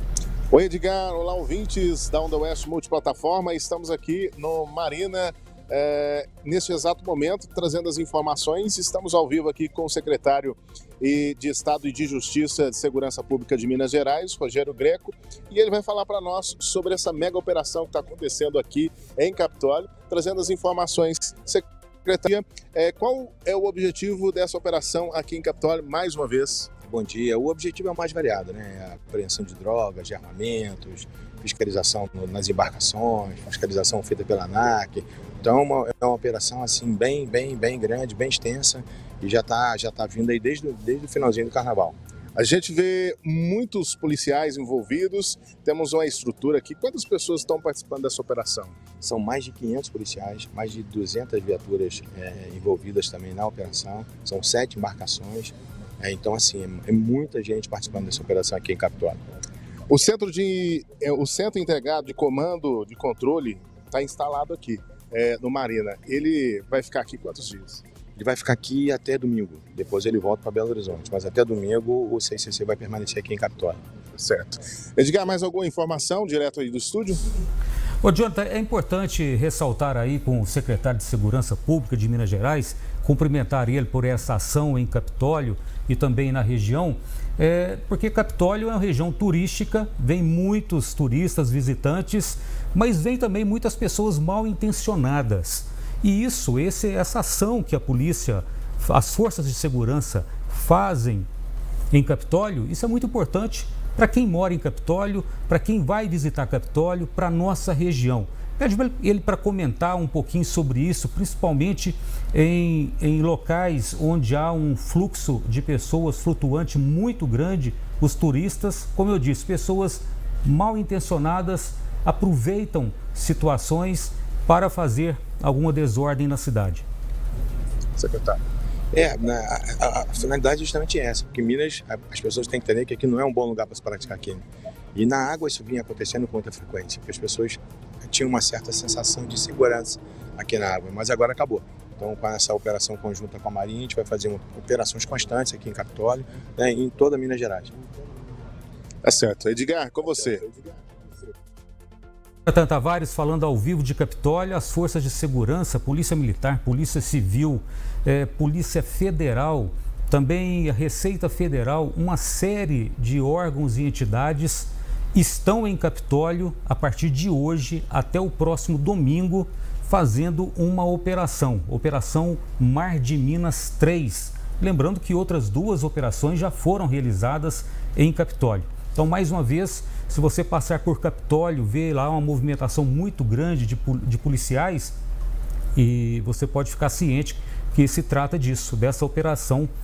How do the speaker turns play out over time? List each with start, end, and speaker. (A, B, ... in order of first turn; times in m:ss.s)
0:00.5-0:26.7 A
0:26.9-0:42.0 B
0:42.4-0:48.8 A
0:49.0-0:59.2 B
0:59.9-1:07.8 A
1:08.2-1:13.8 B
1:14.2-1:17.2 A
1:18.0-1:41.3 C
1:41.9-2:06.8 C
2:08.9-2:14.4 B
2:14.9-2:27.7 B
2:29.0-2:30.5 A
2:32.5-3:04.9 C
3:05.8-3:09.7 C